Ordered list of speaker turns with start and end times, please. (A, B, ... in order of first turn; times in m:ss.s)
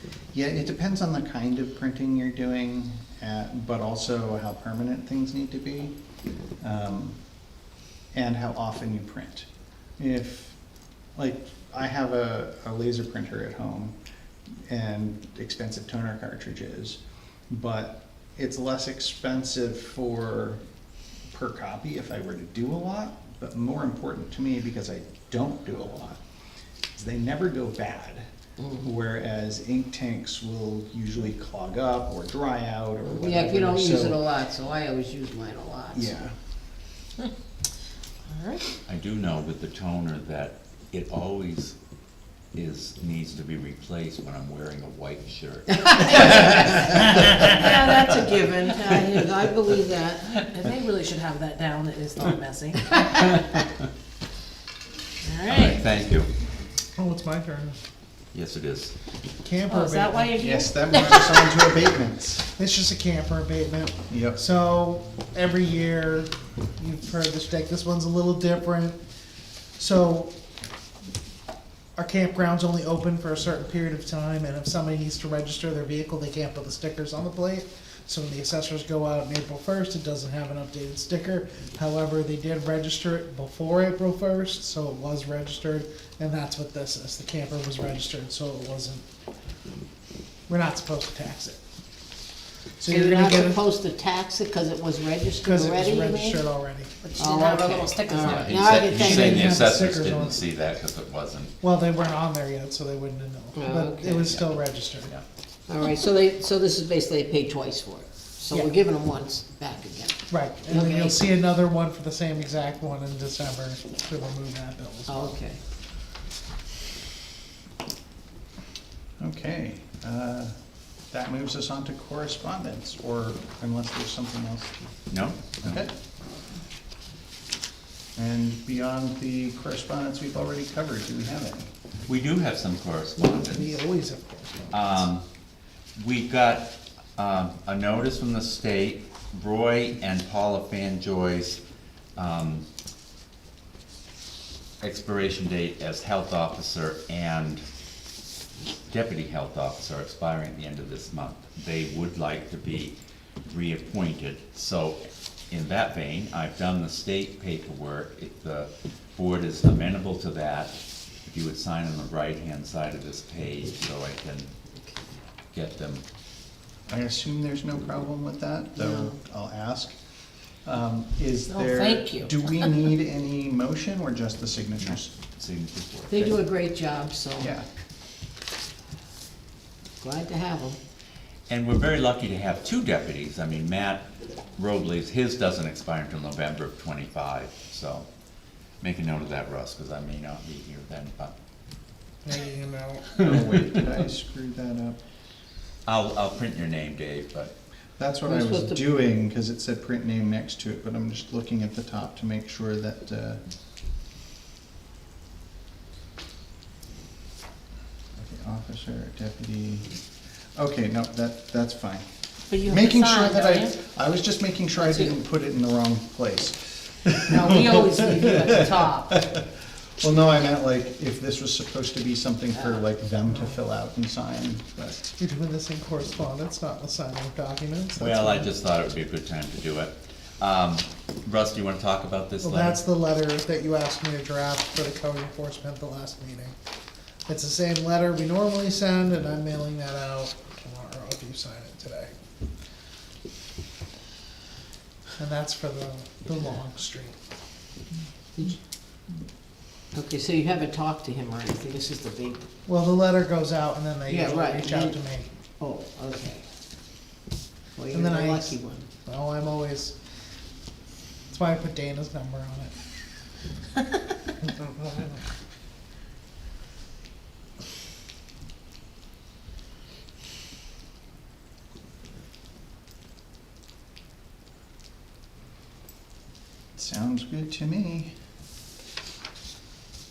0:00.3-0:05.9 A
0:06.6-0:07.2 A
0:08.1-0:09.4 A
0:10.0-0:10.6 A
0:11.2-0:13.9 A
0:14.7-0:17.0 A
0:17.5-0:20.6 A
0:21.3-0:26.2 A
0:26.9-0:34.2 A
0:33.0-0:36.1 B
0:35.9-0:36.3 A
0:38.8-0:41.8 C
0:42.5-0:47.7 C
0:45.7-0:50.4 B
0:50.4-0:53.4 D
0:55.2-0:55.8 D
0:55.4-0:56.3 C
0:57.0-0:57.8 E
0:58.3-0:58.9 C
0:59.4-1:00.4 E
0:59.7-1:01.5 D
1:00.4-1:02.5 A
1:02.6-1:09.0 E
1:04.1-1:04.4 A
1:09.8-1:10.3 E
1:12.0-1:29.0 E
1:30.5-1:31.6 E
1:32.8-1:33.6 E
1:32.8-1:36.4 B
1:35.4-1:37.0 E
1:37.0-1:38.8 D
1:37.2-1:39.7 B
1:38.2-1:41.5 C
1:38.8-1:40.4 E
1:41.6-1:45.1 E
1:43.5-1:44.3 B
1:44.2-1:45.2 C
1:45.7-1:51.2 B
1:50.3-1:55.4 E
1:55.1-1:55.6 B
1:59.2-2:00.5 A
2:01.1-2:04.7 A
2:05.1-2:05.8 C
2:05.6-2:05.9 A
2:08.2-2:11.7 A
2:12.1-2:13.8 C
2:13.2-2:15.0 E
2:14.7-2:15.2 C
2:16.0-2:21.6 C
2:22.2-2:22.6 C
2:24.8-2:27.6 C
2:28.9-2:44.5 C
2:45.5-2:46.0 C
2:46.9-2:49.9 A
2:48.8-2:49.2 B
2:50.6-2:55.1 A
2:51.5-2:52.3 B
2:55.3-2:56.3 C
2:56.1-2:57.5 B
2:56.2-2:56.4 A
2:57.4-2:57.6 A
3:00.0-3:00.8 B
3:01.5-3:08.1 C
3:08.8-3:11.3 C
3:12.2-3:13.2 E
3:13.2-3:15.0 A
3:13.2-3:13.6 C
3:15.8-3:17.5 C
3:18.0-3:23.4 A
3:18.2-3:18.9 B
3:28.2-3:29.9 A
3:30.6-3:45.1 A
3:32.6-3:33.7 B
3:32.6-3:33.0 D
3:34.8-3:35.1 B
3:37.3-3:39.2 B
3:45.2-3:48.5 E
3:48.0-3:52.8 C
3:52.4-3:56.5 E
3:57.3-4:02.1 E
4:05.2-4:07.2 E
4:09.9-4:12.4 B
4:12.7-4:15.3 E
4:14.1-4:15.0 B
4:15.6-4:16.4 B
4:17.8-4:18.9 B
4:17.9-4:19.9 E
4:21.3-4:22.7 E
4:36.7-4:38.1 A